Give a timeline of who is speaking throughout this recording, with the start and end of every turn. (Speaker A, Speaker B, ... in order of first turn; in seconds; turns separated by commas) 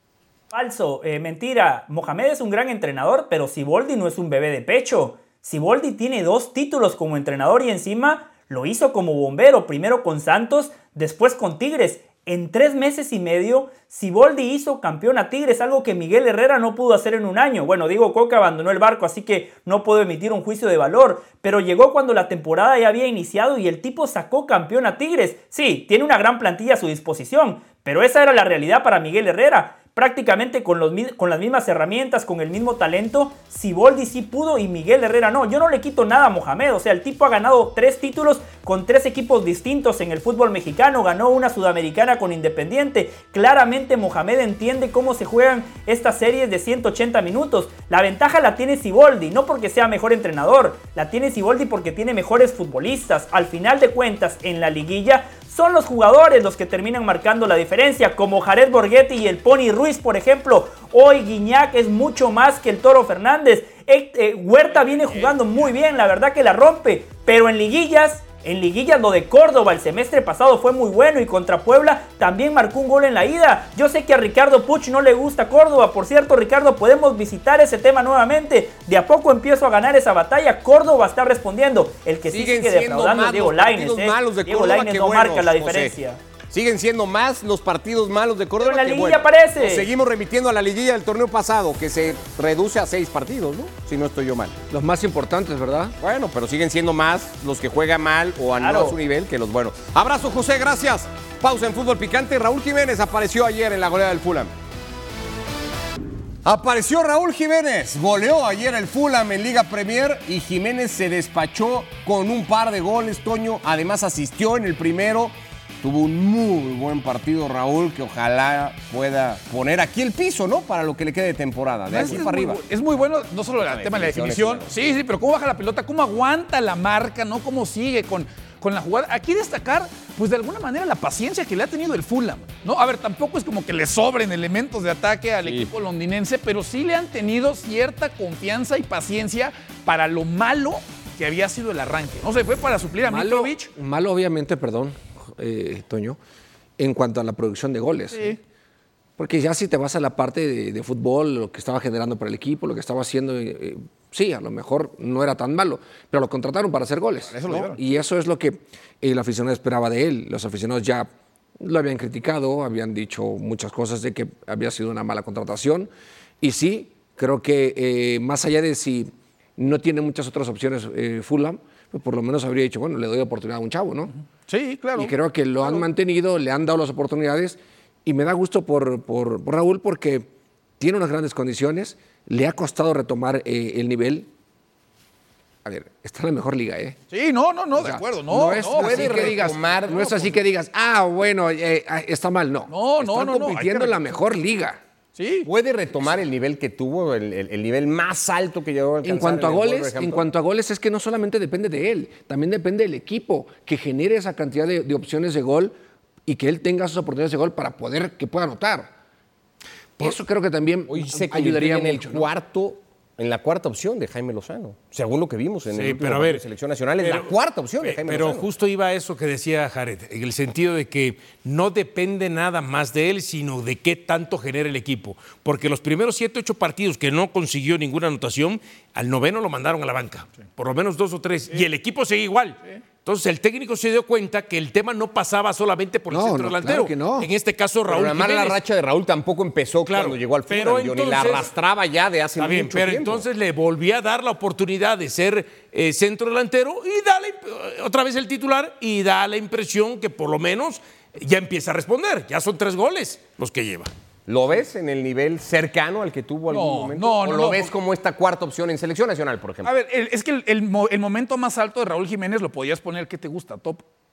Speaker A: 0.5-86.2, Speaker B: 65.0-65.3, Speaker C: 82.3-86.0, Speaker C: 86.5-94.5, Speaker A: 88.6-89.9, Speaker D: 94.7-95.9, Speaker C: 96.0-104.5, Speaker A: 98.5-99.0, Speaker C: 106.4-122.6, Speaker B: 121.9-143.7, Speaker C: 123.6-125.0, Speaker D: 143.0-146.2, Speaker D: 146.8-148.4, Speaker B: 148.1-148.4, Speaker D: 149.2-161.1, Speaker B: 157.3-157.8, Speaker D: 161.6-165.9, Speaker D: 166.4-174.1, Speaker B: 174.5-175.9, Speaker D: 174.9-184.3, Speaker D: 185.6-187.0, Speaker B: 187.1-189.5, Speaker D: 187.7-194.8, Speaker C: 188.6-190.3, Speaker B: 192.7-194.1, Speaker B: 195.2-195.5, Speaker C: 195.4-200.2, Speaker D: 199.0-205.7, Speaker D: 206.3-208.9, Speaker D: 210.0-212.3, Speaker C: 210.9-218.5, Speaker E: 215.7-216.4, Speaker E: 217.0-238.6, Speaker D: 236.1-237.3, Speaker C: 237.9-243.2, Speaker E: 239.9-241.5, Speaker E: 242.4-253.9, Speaker C: 254.3-259.7, Speaker B: 256.5-257.7, Speaker B: 259.6-263.8